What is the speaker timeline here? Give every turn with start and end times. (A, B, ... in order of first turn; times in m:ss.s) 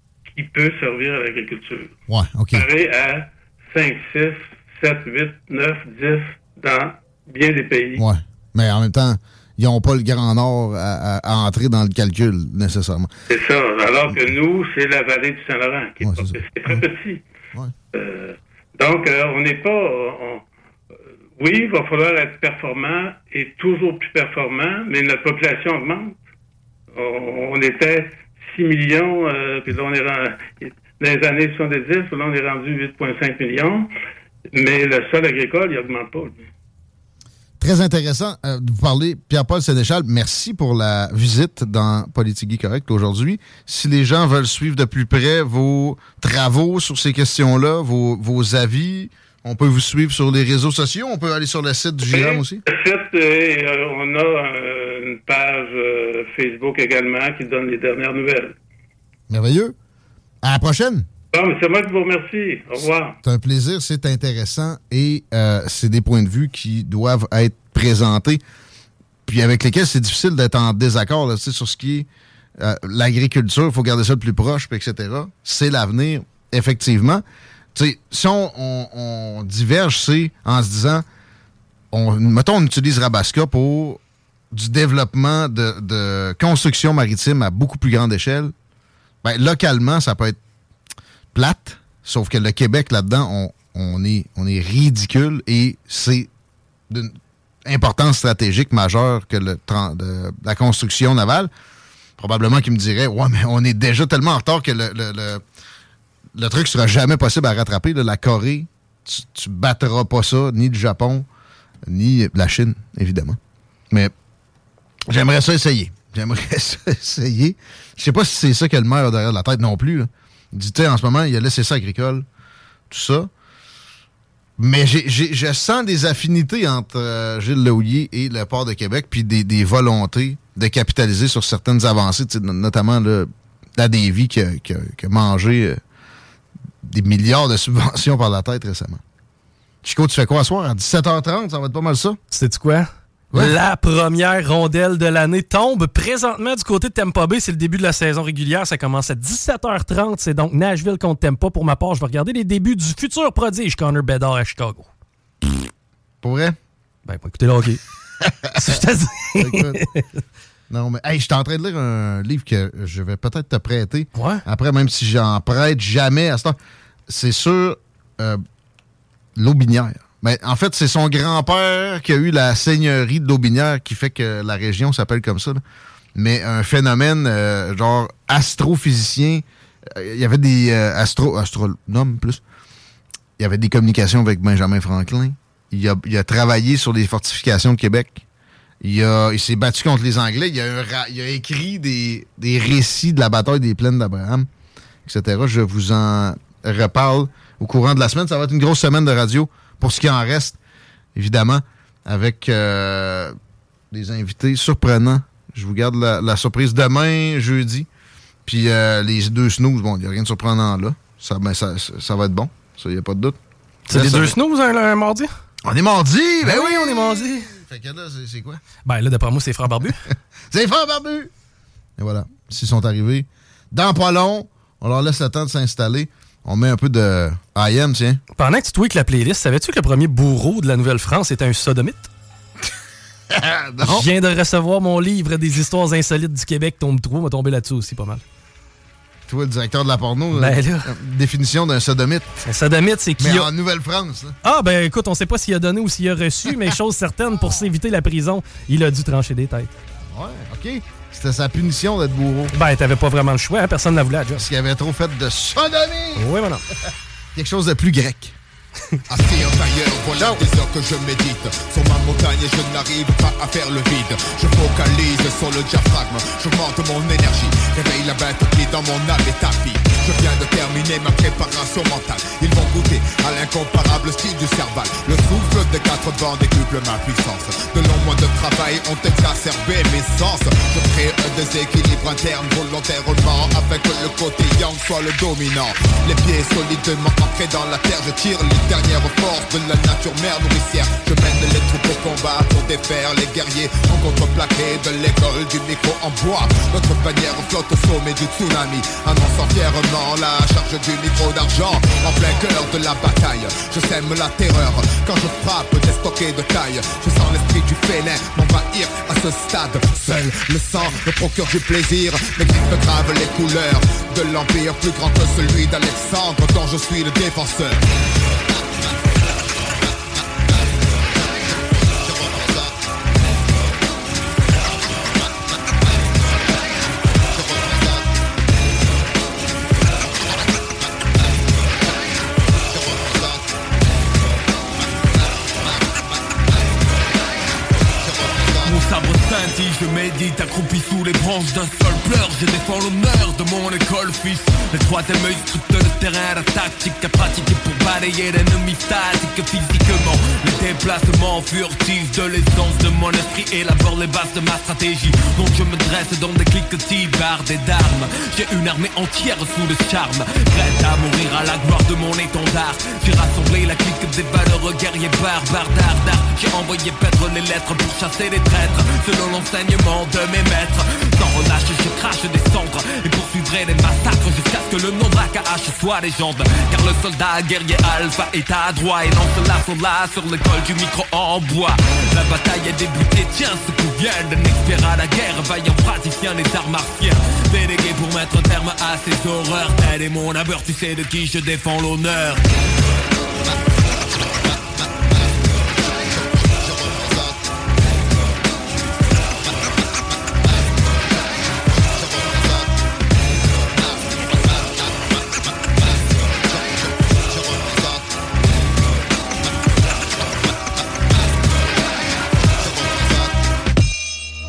0:00.3-0:01.9 A
0:02.1-0:02.7 B
0:02.5-0:08.0 A
0:08.0-0:13.1 B
0:13.3-0:17.2 A
0:16.0-0:16.8 B
0:17.9-0:20.4 A
0:21.4-0:26.2 A
0:26.9-0:33.9 A
0:34.5-0:36.5 A
0:37.6-0:52.6 B
0:52.1-0:58.6 A
0:59.3-0:59.8 B
1:00.4-1:01.0 B
1:01.3-1:03.2 A
1:03.2-1:08.4 B
1:09.3-1:17.2 B
1:17.8-1:21.0 B
1:21.9-1:24.0 B
1:24.5-1:28.5 B
1:29.2-1:30.4 B
1:31.3-1:36.3 B
1:37.6-1:41.5 B
1:42.2-1:45.4 B
1:46.4-1:51.3 B
1:51.9-1:53.4 B
1:55.1-2:02.2 B
2:02.9-2:03.3 B
2:04.6-2:15.8 B
2:16.8-2:19.0 B
2:19.8-2:22.2 B
2:22.3-2:34.9 C
2:36.2-2:36.6 B
2:37.1-2:37.8 C
2:38.3-2:38.8 B
2:38.6-2:40.2 C
2:39.4-2:39.8 B
2:40.7-2:46.6 B
2:44.2-2:44.4 C
2:47.1-2:48.4 B
2:49.4-2:55.6 B
2:56.2-3:02.4 B
3:03.4-3:08.2 B
3:08.8-3:14.5 B
3:15.1-3:20.6 B
3:21.2-3:23.4 B
3:23.9-3:27.9 B
3:28.5-3:33.4 B
3:33.9-3:35.3 C
3:33.9-3:34.4 B
3:35.7-3:38.6 B
3:36.4-3:37.5 C
3:38.9-3:40.0 C
3:40.5-3:41.3 B
3:42.0-3:48.2 B
3:48.4-3:52.1 C
3:53.3-3:54.1 B
3:53.8-3:58.2 C
3:59.3-4:02.3 B
4:00.3-4:00.9 C
4:02.4-4:03.5 C
4:03.2-4:04.4 B
4:04.4-4:09.7 C
4:10.1-4:12.5 B
4:12.5-4:14.5 C
4:14.4-4:16.3 B
4:16.2-4:16.6 C
4:17.4-4:18.4 B
4:19.1-5:17.8 D
4:20.2-4:20.4 B
5:22.3-5:22.6 B
5:27.4-5:27.8 B
5:32.7-5:33.4 B
5:38.0-5:38.7 B
5:38.6-6:32.4 E
6:52.6-6:53.1 D